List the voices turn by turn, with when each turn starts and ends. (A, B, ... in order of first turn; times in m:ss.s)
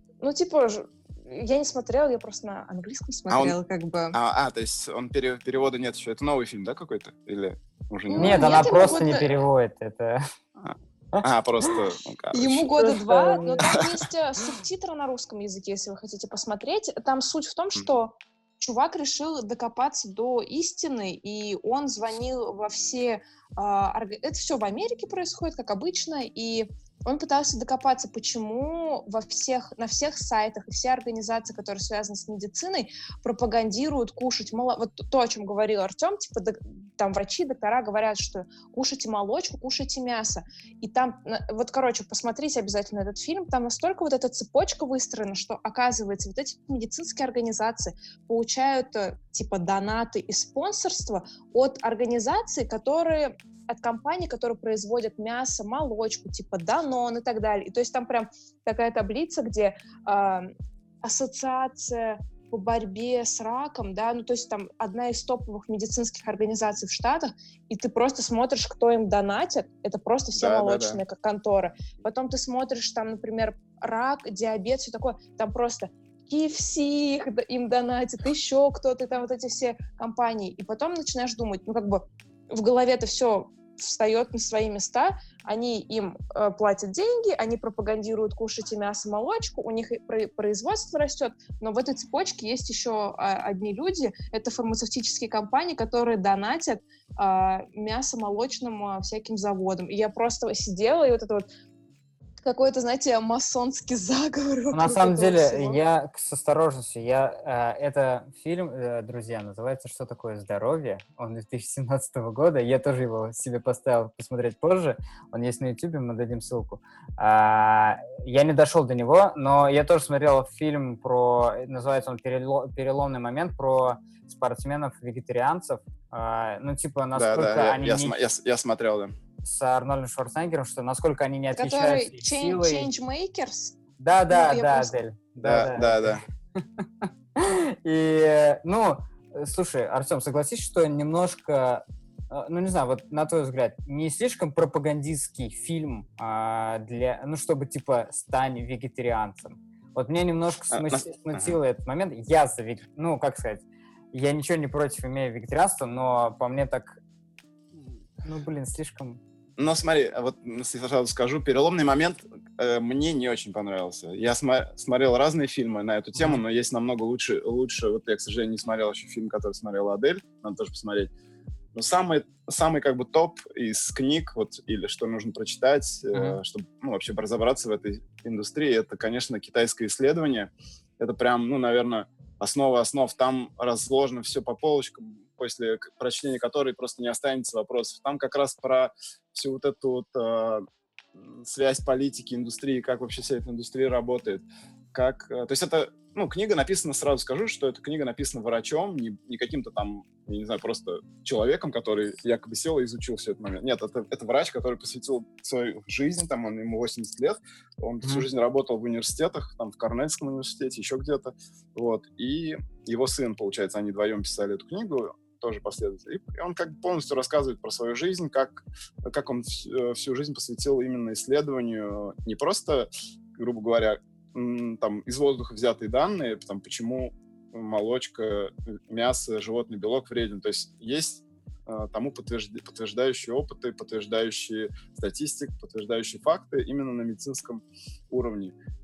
0:00.2-0:04.2 A
0:03.3-0:03.6 B
0:04.1-0:08.8 B
0:08.1-0:09.4 A
0:08.2-0:10.2 C
0:11.2-0:11.7 C
0:11.2-0:12.8 B
0:12.3-1:00.5 A
0:12.8-0:13.6 C
1:01.0-1:41.5 A
1:10.3-1:11.0 B
1:42.4-1:45.8 A
1:44.7-2:08.2 C
2:07.2-2:09.1 B
2:09.4-2:12.9 C
2:11.6-2:13.8 A
2:14.0-2:37.0 C
2:14.3-2:14.9 A
2:15.4-2:16.2 B
2:30.7-2:31.6 B
2:38.2-2:39.2 C
2:39.6-2:51.1 B
2:51.7-3:58.6 B
2:56.1-2:56.4 C